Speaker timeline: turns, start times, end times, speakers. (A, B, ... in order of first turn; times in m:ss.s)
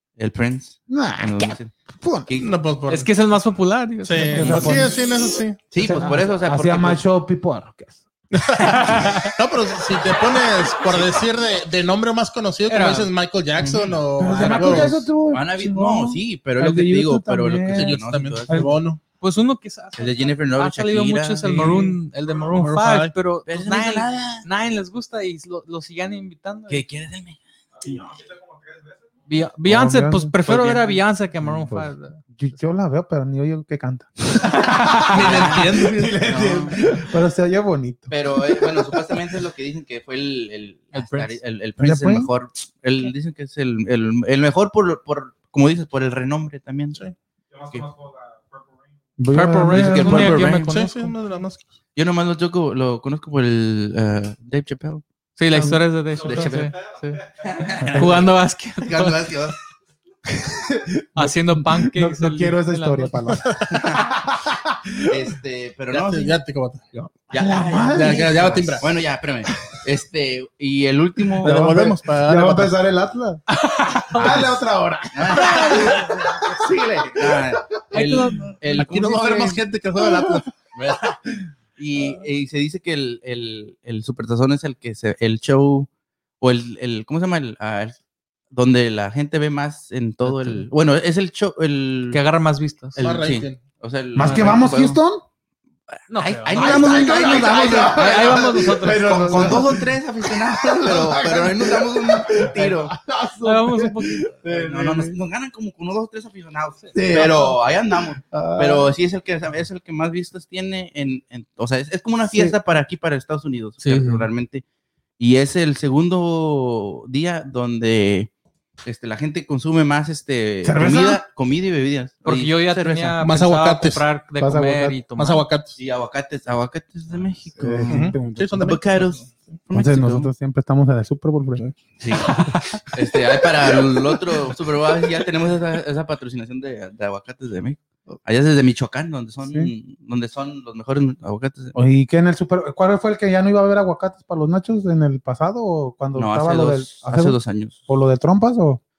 0:00.2-0:01.7 A
0:00.9-0:02.3 B
0:02.3-0:02.5 A
0:02.4-0:03.1 C
0:02.9-0:04.9 D
0:04.0-0:05.6 C
0:04.3-0:05.0 B
0:05.7-0:07.0 A
0:05.7-0:08.0 B
0:08.3-0:15.1 C
0:08.6-0:09.3 D
0:12.7-0:13.1 D
0:13.6-0:18.7 A
0:14.2-0:18.7 B
0:17.7-0:19.0 C
0:19.2-0:26.8 D
0:20.0-0:21.8 A
0:21.4-0:21.9 B
0:21.5-0:21.8 C
0:22.5-0:23.1 C
0:23.4-0:24.4 A
0:26.7-0:27.4 A
0:27.7-0:29.2 E
0:29.3-0:32.6 D
0:29.6-0:30.3 B
0:30.4-0:31.0 A
0:31.4-0:39.3 B
0:34.4-0:35.4 D
0:35.0-0:36.4 C
0:35.2-0:35.6 A
0:36.2-0:36.9 A
0:38.1-0:47.0 A
0:40.9-0:41.4 D
0:41.8-0:42.3 B
0:47.5-0:49.2 E
0:49.2-0:50.5 B
0:49.3-0:51.1 D
0:49.7-0:50.8 A
0:50.4-0:51.6 C
0:51.9-0:55.0 A
0:55.4-0:57.2 D
0:55.5-0:55.8 B
0:56.2-0:57.7 E
0:56.2-0:56.7 A
0:57.4-0:59.6 A
0:57.8-0:58.2 B
0:57.9-0:59.3 D
1:00.7-1:05.3 B
1:01.1-1:03.4 D
1:03.4-1:03.8 C
1:03.7-1:04.1 A
1:05.1-1:06.4 A
1:05.9-1:06.8 C
1:07.0-1:08.6 B
1:07.3-1:11.7 A
1:07.8-1:09.0 C
1:11.4-1:12.8 C
1:11.4-1:13.4 B
1:13.5-1:14.5 D
1:14.1-1:17.4 B
1:14.2-1:14.6 A
1:15.1-1:19.6 A
1:15.4-1:16.4 D
1:17.9-1:18.6 D
1:18.6-1:21.2 C
1:20.0-1:20.4 B
1:21.8-1:25.9 A
1:26.4-1:28.0 A
1:28.5-1:32.2 A
1:30.3-1:30.6 D
1:32.1-1:33.0 D
1:32.9-1:35.0 A
1:33.0-1:33.6 C
1:34.1-1:35.2 B
1:34.2-1:34.6 D
1:36.1-1:37.2 D
1:36.2-1:42.9 A
1:36.2-1:39.9 B
1:36.6-1:39.5 E
1:37.9-1:39.6 D
1:40.6-1:45.1 B
1:43.4-1:44.3 D
1:44.4-1:54.6 A
1:46.9-1:47.6 C
1:47.0-1:47.4 B
1:48.3-1:48.9 B
1:52.3-1:52.6 B
1:53.8-1:54.3 D
1:55.2-1:58.3 A
1:58.8-2:03.2 A
2:00.6-2:01.2 B
2:02.2-2:05.4 D
2:03.2-2:04.0 C
2:04.4-2:05.0 B
2:05.2-2:05.8 C
2:05.8-2:10.3 A
2:07.6-2:08.8 B
2:07.6-2:09.4 C
2:09.7-2:11.6 B
2:12.0-2:21.7 A
2:12.4-2:12.7 D
2:19.5-2:19.7 B
2:21.7-2:28.8 B
2:26.1-2:27.8 A